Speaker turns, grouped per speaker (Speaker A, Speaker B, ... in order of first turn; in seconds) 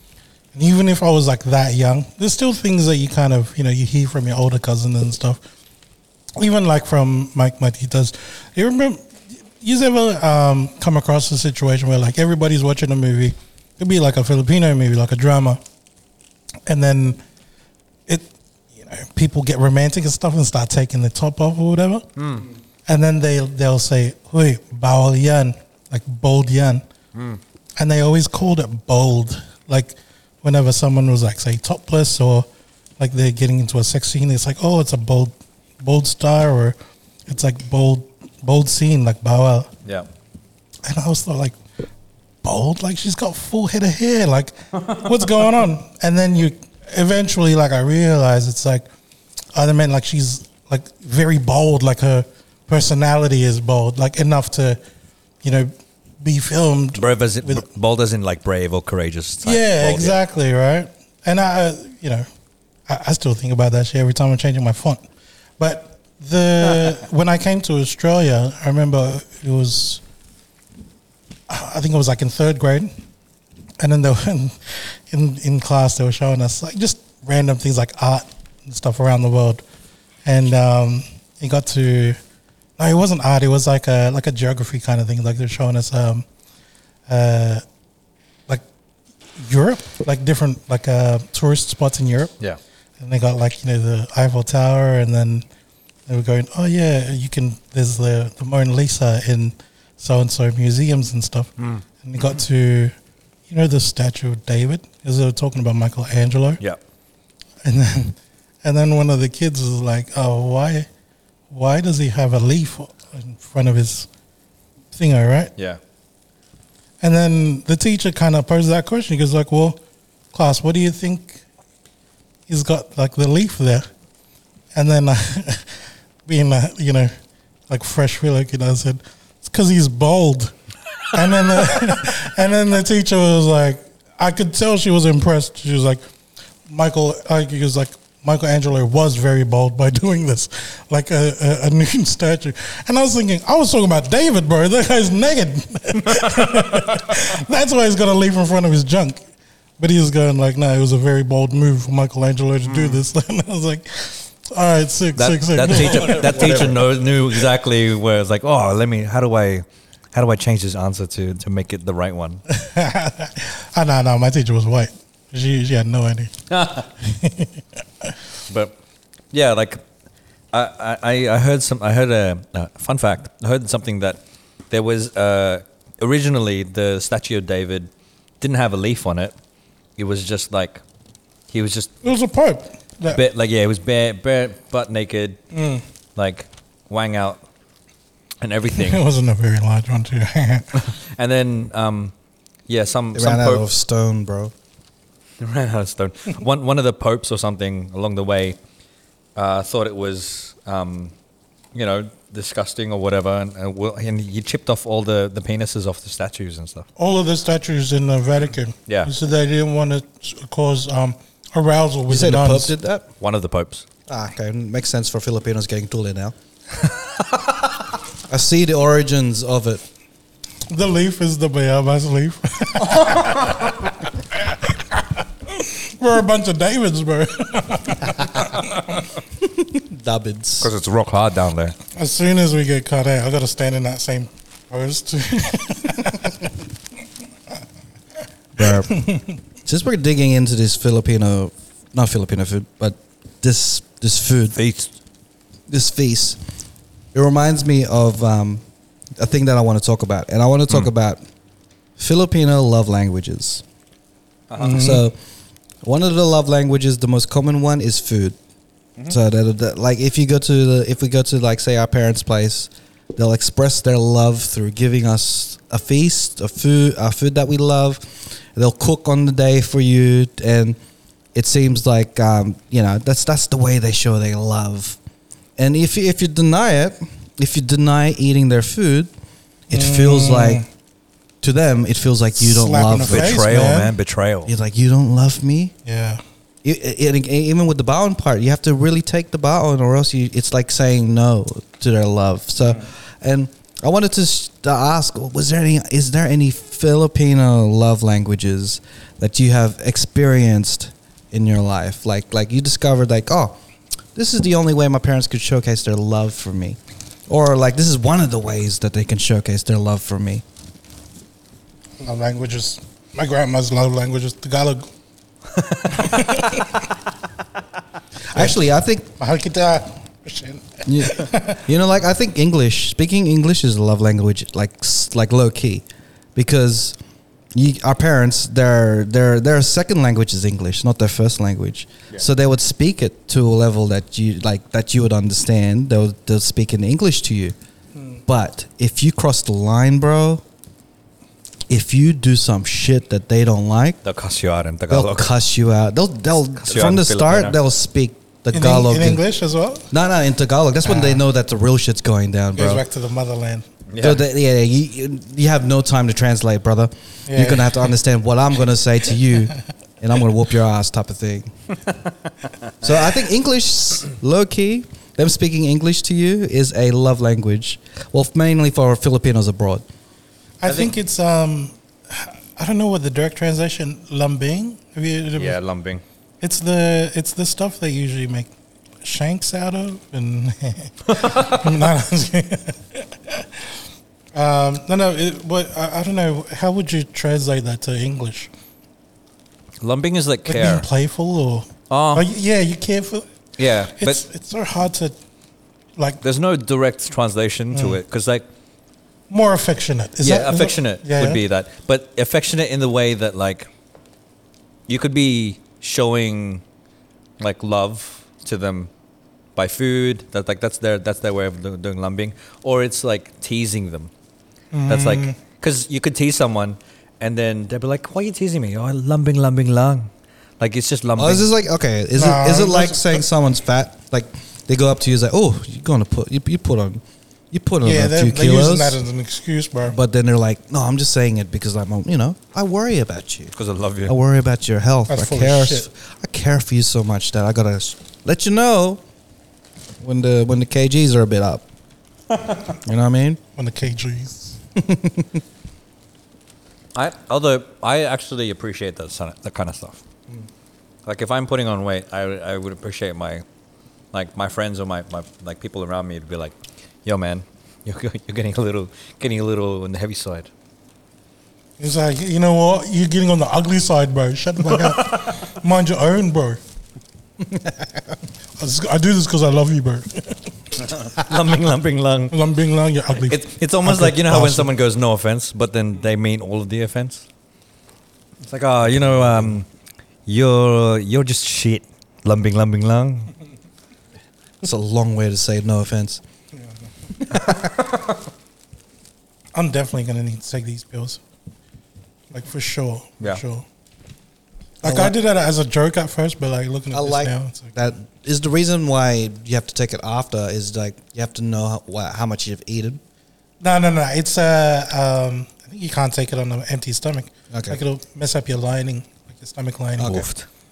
Speaker A: 0.5-5.4, 6.4-15.6, 16.7-17.2, 18.1-22.1, 22.9-26.9, 27.8-32.5, 33.0-39.7, 40.8-41.6, 42.4-48.9, 49.5-54.8, 55.4-57.7, 59.4-62.3, 62.9-65.0, 65.6-70.0, 71.5-72.9, 73.8-79.6, 80.2-82.2, 82.8-86.3, 87.1-87.6, 89.4-92.3, 93.0-95.5, 96.1-101.5, 102.0-103.0, 103.5-106.6, 107.6-110.9, 111.5-114.1, 114.9-115.5, 117.0-119.8, 120.3-121.4, 122.5-123.9, 124.7-127.1, 127.7-130.6, 131.1-136.0, 136.7-149.2, 149.8-156.9, 162.5-166.4, 167.0-168.2, 182.0-183.2, 185.5-185.8, 188.7-190.8, 207.0-212.7, 220.7-229.0, 231.9-236.5, 238.6-239.3, 254.6-255.1, 279.7-280.7, 282.4-283.9, 285.9-286.2, 312.0-314.9, 316.0-316.8, 319.2-321.6, 337.9-338.2, 348.5-349.9, 350.9-351.2, 352.6-353.7, 357.3-357.9, 370.6-375.6, 376.4-378.5, 379.0-383.8, 384.3-388.5, 390.5-393.3, 394.0-395.2, 397.7-398.0, 399.3-401.4, 414.7-415.4, 422.1-423.2, 427.8-430.0, 435.1-435.9, 443.6-444.6, 461.8-466.6, 468.6-470.5, 472.3-474.7, 489.6-491.2, 492.3-493.7, 494.8-497.8, 503.6-510.2
Speaker B: 22.2-22.5, 27.1-27.4, 57.0-60.2, 101.6-101.8, 152.7-153.0, 155.2-162.4, 166.5-166.9, 168.5-168.8, 169.3-169.8, 170.5-174.2, 174.7-177.9, 178.4-179.3, 180.0-180.8, 181.5-181.9, 183.1-185.4, 186.2-187.4, 188.4-189.0, 190.8-192.1, 192.7-193.7, 195.4-198.6, 199.4-201.1, 201.7-206.9, 213.2-213.9, 230.6-231.8, 244.5-244.9, 254.5-255.0, 283.1-284.5, 315.6-316.4, 344.0-345.3, 346.6-347.6, 353.9-354.2, 370.6-370.9, 375.4-376.0, 381.2-381.5, 389.8-390.9, 391.9-392.3, 393.6-394.2, 396.2-398.4, 400.2-403.7, 404.9-406.6, 407.4-408.9, 409.6-414.1, 414.9-421.5, 433.6-434.1, 446.9-450.0, 451.1-453.4, 454.1-456.5, 457.1-460.5, 470.8-472.4, 473.2-477.2, 478.4-479.7, 480.3-483.3, 510.0-510.5
Speaker C: 193.1-194.5, 212.1-213.1, 214.1-216.3, 218.3-219.8, 229.4-230.7, 238.6-239.0, 239.7-244.6, 245.7-246.4, 247.1-248.6, 249.2-251.2, 252.0-253.6, 254.7-255.2, 255.8-258.4, 259.1-270.8, 271.3-275.0, 275.6-279.1, 279.7-280.6, 281.4-283.4, 284.5-285.7, 286.6-303.6, 304.1-310.4, 318.3-319.1, 320.9-327.0, 327.5-337.6, 338.3-340.4, 341.7-344.0, 344.9-349.2, 349.9-352.8, 354.0-361.5, 362.8-369.9, 421.2-427.0, 427.5-429.0, 429.9-433.5, 434.1-439.0, 440.0-441.7, 442.8-443.4, 444.8-445.3, 484.6-486.2, 487.3-487.6, 494.8-495.1, 496.9-503.0, 507.5-507.8, 510.0-510.3